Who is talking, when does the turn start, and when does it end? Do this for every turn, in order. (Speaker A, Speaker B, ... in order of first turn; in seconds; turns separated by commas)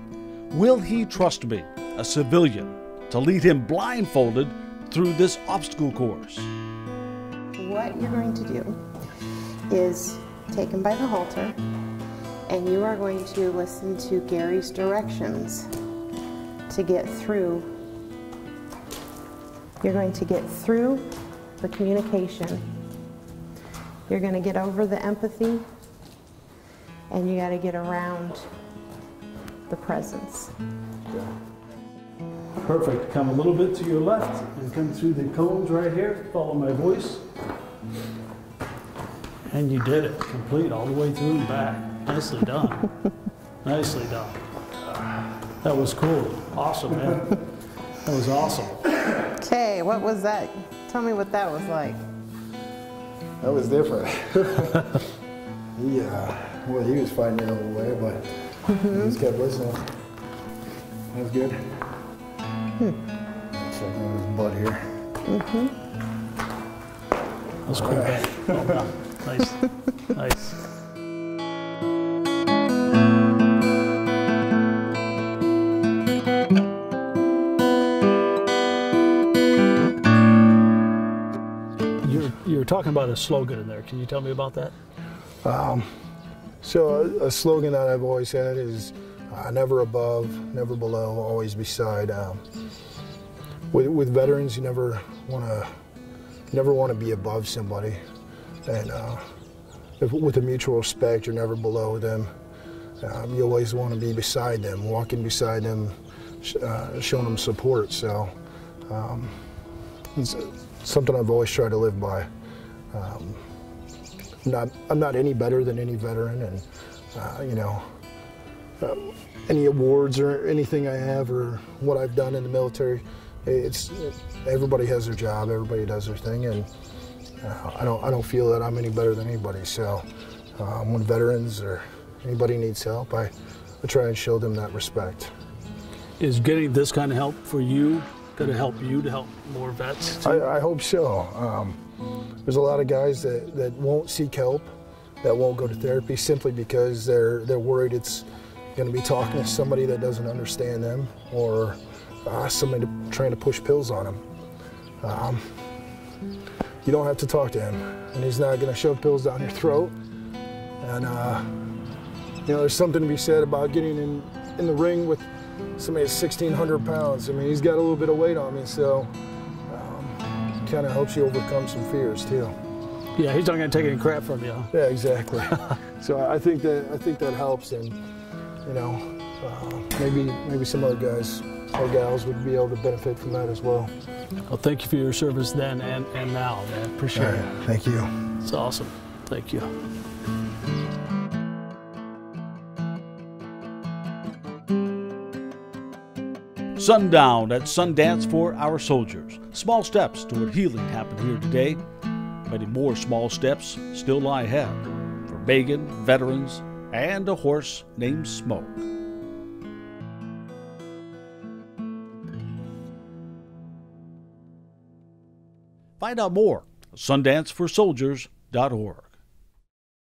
Speaker A: 0.5-6.5, Speaker B: 7.6-8.8, Speaker B: 9.7-11.6, Speaker B: 12.5-15.7, Speaker B: 16.7-17.7, Speaker B: 19.8-22.6, Speaker B: 24.1-25.7, Speaker B: 27.1-28.5, Speaker B: 29.7-30.5, Speaker C: 32.6-37.2, Speaker C: 39.5-42.9, Speaker C: 43.6-44.4, Speaker C: 45.6-47.4, Speaker C: 48.0-48.9, Speaker B: 49.3-52.0, Speaker D: 53.4-55.0, Speaker D: 55.8-60.0, Speaker B: 58.7-59.2, Speaker D: 61.1-61.8, Speaker D: 63.5-64.9, Speaker B: 65.2-65.7, Speaker C: 67.6-70.6, Speaker D: 67.7-68.8, Speaker C: 82.0-84.7, Speaker D: 85.4-85.9, Speaker D: 86.6-92.4, Speaker D: 93.7-95.7, Speaker D: 96.5-98.0, Speaker D: 98.7-99.2, Speaker D: 100.0-102.3, Speaker D: 103.0-108.3, Speaker D: 108.9-109.4, Speaker D: 110.2-112.3, Speaker D: 112.9-113.4, Speaker D: 114.4-117.9, Speaker D: 118.8-126.7, Speaker D: 127.4-130.1, Speaker D: 130.6-135.3, Speaker C: 136.2-140.4, Speaker D: 140.2-141.8, Speaker D: 142.4-154.2, Speaker D: 155.0-155.4, Speaker D: 156.8-159.9, Speaker D: 160.8-161.5, Speaker D: 162.4-169.1, Speaker D: 169.7-172.6, Speaker C: 173.2-174.7, Speaker D: 174.7-178.0, Speaker D: 178.7-183.9, Speaker C: 184.5-187.4, Speaker D: 187.1-188.1, Speaker C: 188.4-189.7, Speaker A: 196.8-201.8, Speaker A: 202.4-208.9, Speaker A: 216.0-219.1